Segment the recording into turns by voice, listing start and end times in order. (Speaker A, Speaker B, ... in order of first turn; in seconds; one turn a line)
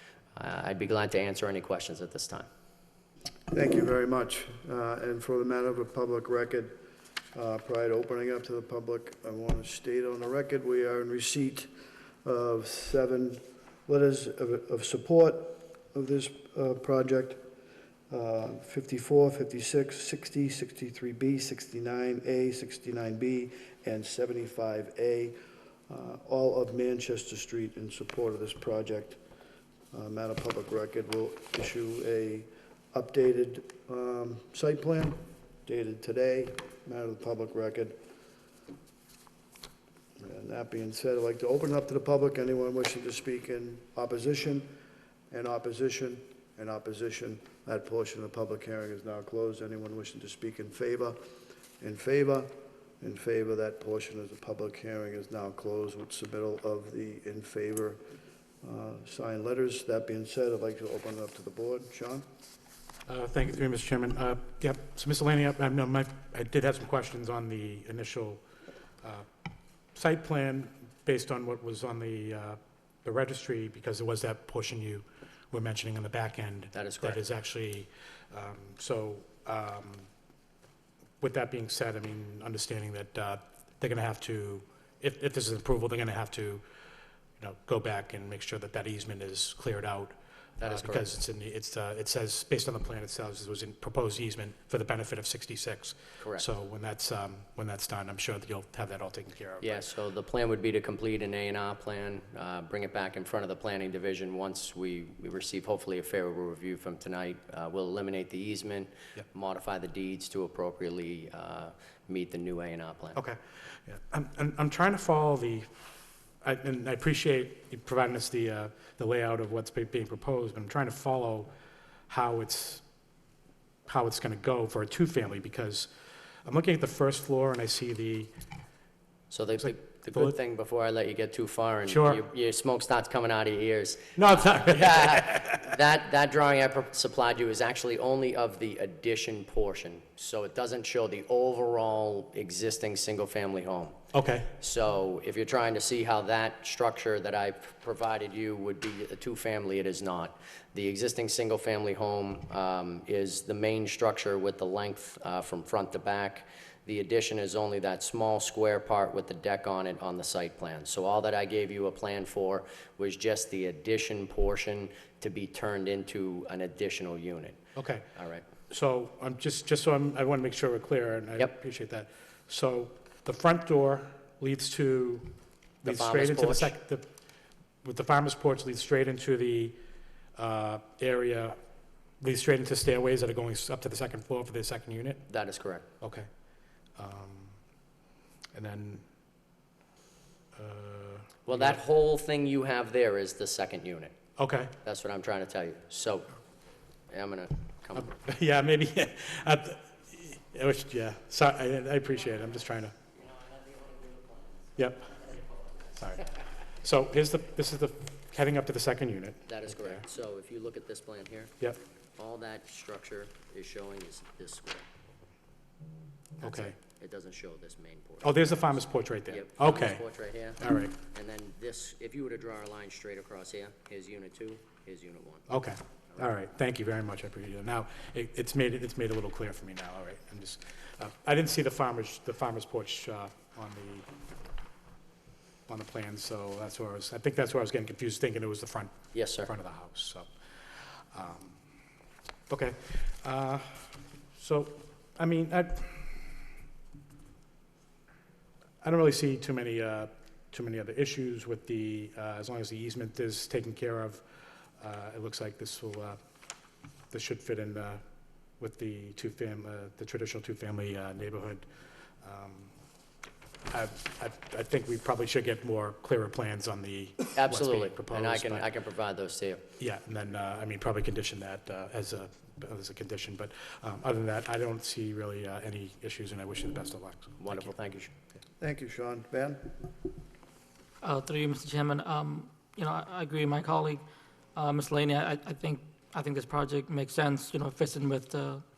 Speaker A: 0.3-2.5
Speaker B: 3.5-6.7
Speaker B: 7.3-11.7
Speaker B: 12.2-17.4
Speaker B: 18.1-25.3
Speaker B: 25.9-29.2
Speaker B: 29.9-38.0
Speaker B: 40.2-44.7
Speaker B: 45.3-51.2
Speaker B: 51.8-58.0
Speaker B: 58.6-62.2
Speaker C: 63.1-68.4
Speaker C: 69.9-80.1
Speaker A: 76.7-77.2
Speaker C: 81.2-86.6
Speaker C: 87.4-99.8
Speaker A: 90.6-91.0
Speaker A: 96.2-96.5
Speaker A: 99.6-113.2
Speaker C: 113.2-115.7
Speaker C: 116.4-121.5
Speaker C: 122.1-122.8
Speaker C: 123.9-125.9
Speaker C: 126.4-128.3
Speaker A: 129.3-144.0
Speaker C: 131.9-132.2
Speaker C: 134.2-135.6
Speaker C: 144.1-144.5
Speaker A: 144.6-167.6
Speaker C: 167.8-168.1
Speaker A: 168.1-168.4
Speaker C: 168.7-175.3
Speaker C: 175.8-177.0
Speaker A: 175.8-176.7
Speaker C: 177.8-179.7
Speaker C: 180.3-181.6
Speaker C: 182.2-185.2
Speaker A: 185.3-185.8
Speaker C: 186.0-186.3
Speaker C: 187.0-187.6
Speaker C: 188.5-189.0
Speaker C: 190.6-191.8
Speaker A: 191.4-194.1
Speaker C: 194.4-194.7
Speaker A: 194.8-196.3
Speaker A: 197.1-198.2
Speaker C: 198.0-202.9
Speaker A: 203.2-204.5
Speaker C: 204.8-205.2
Speaker C: 205.9-206.3
Speaker C: 206.8-209.5
Speaker A: 209.5-211.5
Speaker A: 212.2-214.9
Speaker C: 216.4-216.7
Speaker A: 216.4-225.5
Speaker C: 218.2-220.0
Speaker C: 220.6-220.9
Speaker C: 225.5-234.1
Speaker C: 235.7-241.6
Speaker A: 239.1-239.5
Speaker C: 242.5-246.2
Speaker C: 248.8-254.2
Speaker C: 254.8-256.2
Speaker C: 257.1-258.0
Speaker C: 258.6-261.6
Speaker C: 262.2-262.7
Speaker C: 263.7-268.7
Speaker A: 267.3-269.6
Speaker C: 269.8-277.7
Speaker A: 277.4-278.1
Speaker B: 278.6-279.7
Speaker D: 281.0-284.0
Speaker D: 284.5-288.6